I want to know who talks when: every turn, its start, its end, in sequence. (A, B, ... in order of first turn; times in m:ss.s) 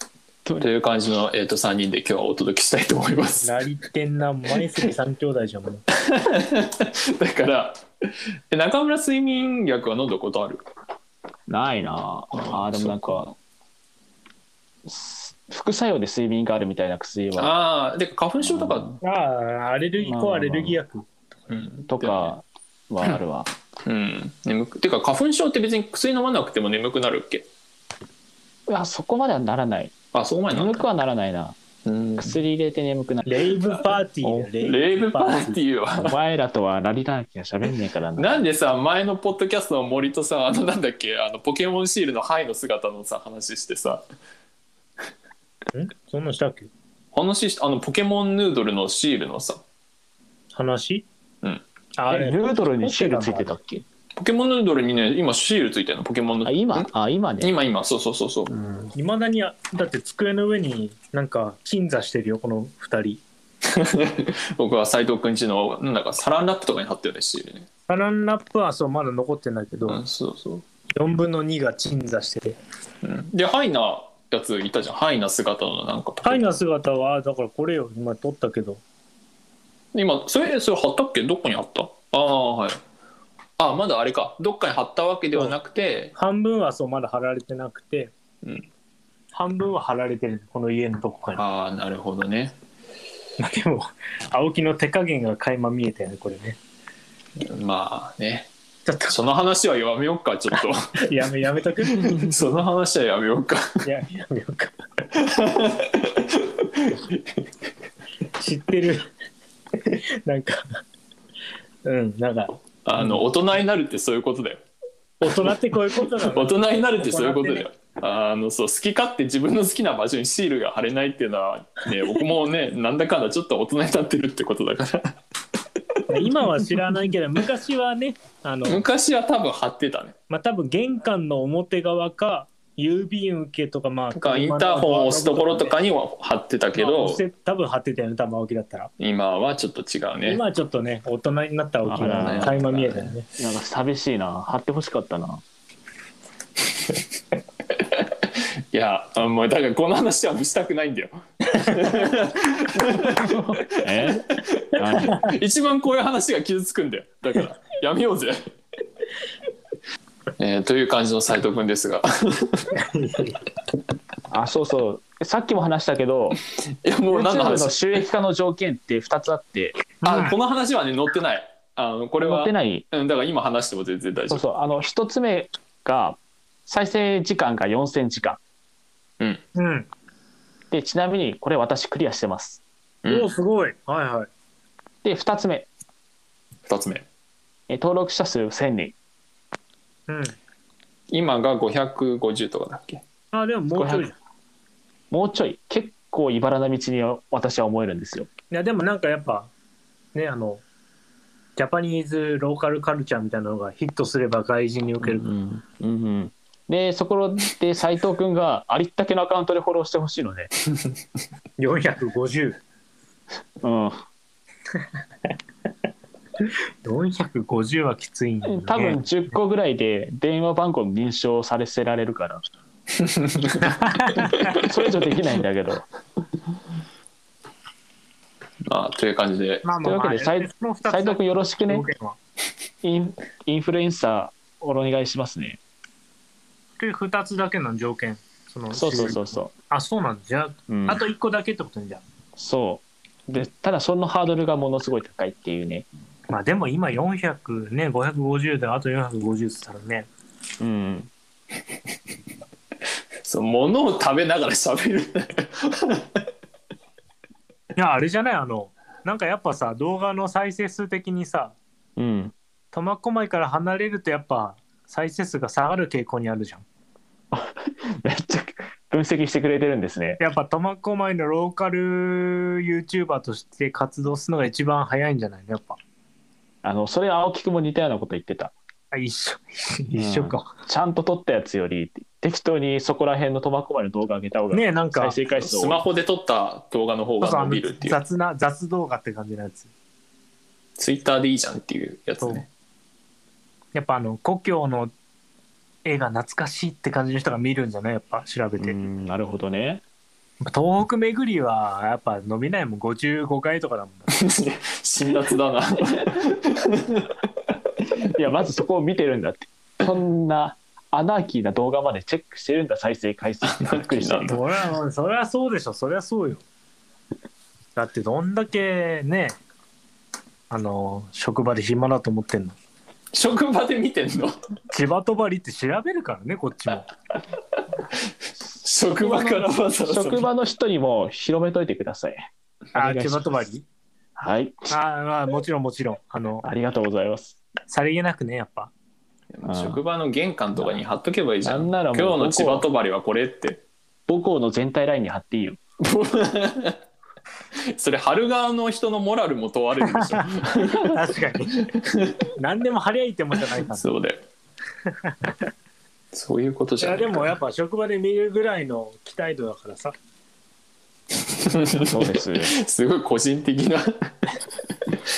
0:00.6-0:03.6 A
0:03.4-0:05.8 B
0:05.9-0:07.8 A
0:08.5-0:10.6 A
0:11.5-0:13.4 C
0:12.3-0:13.2 A
0:14.8-0:17.5 C
0:17.4-0:19.0 A
0:18.4-0:18.9 C
0:19.0-0:21.1 B
0:20.0-0:20.8 C
0:21.5-0:22.3 A
0:21.9-0:23.5 C
0:23.8-0:27.5 A
0:28.7-0:29.9 C
0:30.1-0:30.9 A
0:30.5-0:31.6 C
0:31.8-0:32.4 A
0:32.2-0:33.4 C
0:33.2-0:35.6 B
0:34.6-0:36.2 A
0:36.0-0:38.4 C
0:38.2-0:44.0 A
0:45.7-0:46.7 B
0:47.1-0:49.6 A
0:50.5-0:51.0 B
0:52.0-0:53.5 B
0:52.1-0:53.8 C
0:54.2-0:58.5 A
0:56.4-0:57.5 C
0:58.5-0:58.9 C
0:58.9-1:03.2 B
1:03.6-1:07.6 A
1:07.9-1:10.0 B
1:09.9-1:10.6 A
1:11.0-1:12.6 B
1:13.0-1:16.4 A
1:16.2-1:18.8 B
1:19.9-1:22.8 A
1:23.6-1:26.1 A
1:26.1-1:28.1 B
1:29.3-1:31.4 B
1:31.3-1:32.6 A
1:33.4-1:36.6 B
1:37.4-1:38.5 A
1:38.8-1:39.2 B
1:39.1-1:41.0 A
1:41.0-1:42.3 B
1:41.9-1:43.8 A
1:43.8-1:44.8 B
1:45.1-1:47.4 A
1:48.4-1:49.1 B
1:49.8-1:50.8 B
1:51.8-1:53.2 B
1:52.8-1:54.6 A
1:55.2-1:57.6 B
1:55.2-2:05.1 A
2:05.9-2:06.2 A
2:06.1-2:08.8 B
2:08.6-2:10.1 A
2:10.3-2:15.8 B
2:14.1-2:17.2 A
2:16.8-2:18.9 B
2:19.0-2:20.4 A
2:20.2-2:23.2 B
2:21.8-2:22.6 C
2:22.0-2:23.1 A
2:23.4-2:25.4 C
2:27.8-2:38.4 A
2:33.1-2:35.3 C
2:40.4-2:42.8 A
2:42.7-2:43.4 B
2:44.3-2:46.4 C
2:46.8-2:48.0 A
2:47.1-2:49.8 C
2:50.0-2:54.4 A
2:50.0-2:50.3 B
2:52.2-2:52.8 C
2:54.3-2:58.4 C
2:59.5-2:59.9 B
3:00.7-3:02.6 C
3:03.0-3:03.3 A
3:03.1-3:04.3 B
3:05.0-3:05.7 C
3:06.7-3:07.0 A
3:07.7-3:08.9 C
3:10.1-3:10.4 B
3:11.1-3:13.0 A
3:13.3-3:14.2 B
3:13.7-3:14.1 C
3:15.1-3:18.3 C
3:18.5-3:19.5 B
3:20.1-3:20.6 B
3:21.6-3:25.3 B
3:25.0-3:30.5 C
3:31.6-3:32.6 B
3:33.6-3:34.0 C
3:36.4-3:39.0 B
3:38.4-3:42.4 C
3:43.0-3:44.6 A
3:43.6-3:44.6 B
3:44.6-3:45.9 C
3:48.7-3:49.7 A
3:49.6-3:52.2 B
3:49.8-3:51.8 C
3:52.8-3:55.6 C
3:56.8-4:02.0 B
3:58.7-3:59.5 C
4:00.7-4:01.0 C
4:02.4-4:05.9 C
4:06.3-4:10.1 B
4:10.6-4:11.1 C
4:13.2-4:16.2 A
4:17.8-4:21.6 B
4:22.0-4:22.3 C
4:22.7-4:26.6 B
4:27.3-4:30.2 C
4:30.2-4:35.8 B
4:36.6-4:38.5 C
4:38.9-4:40.5 B
4:40.0-4:45.8 C
4:44.5-4:45.2 B
4:45.4-4:48.0 A
4:47.2-4:49.7 B
4:50.8-4:52.5 A
4:53.7-4:54.9 B
4:55.8-4:58.8 B
4:58.6-4:59.8 C
5:00.4-5:04.2 B
5:04.1-5:07.1 A
5:08.1-5:14.4 C
5:13.4-5:14.4 A
5:14.3-5:16.4 B
5:17.8-5:19.4 B
5:20.5-5:22.6 B
5:23.1-5:24.4 A
5:24.7-5:26.9 B
5:28.6-5:30.3 A
5:29.0-5:33.4 C
5:32.7-5:33.6 B
5:34.2-5:34.7 C
5:34.7-5:36.4 B
5:36.4-5:37.4 C
5:37.7-5:38.7 B
5:39.3-5:43.6 A
5:39.4-5:39.8 C
5:41.4-5:42.7 C
5:44.1-5:45.6 C
5:45.8-5:46.8 A
5:47.7-5:50.9 A
5:50.5-5:51.7 B
5:51.6-5:52.2 A
5:52.4-5:53.9 B
5:53.7-5:54.2 A
5:55.0-5:55.3 B
5:56.1-5:57.3 A
5:56.8-6:00.0 B
6:01.2-6:03.9 A
6:01.9-6:02.5 C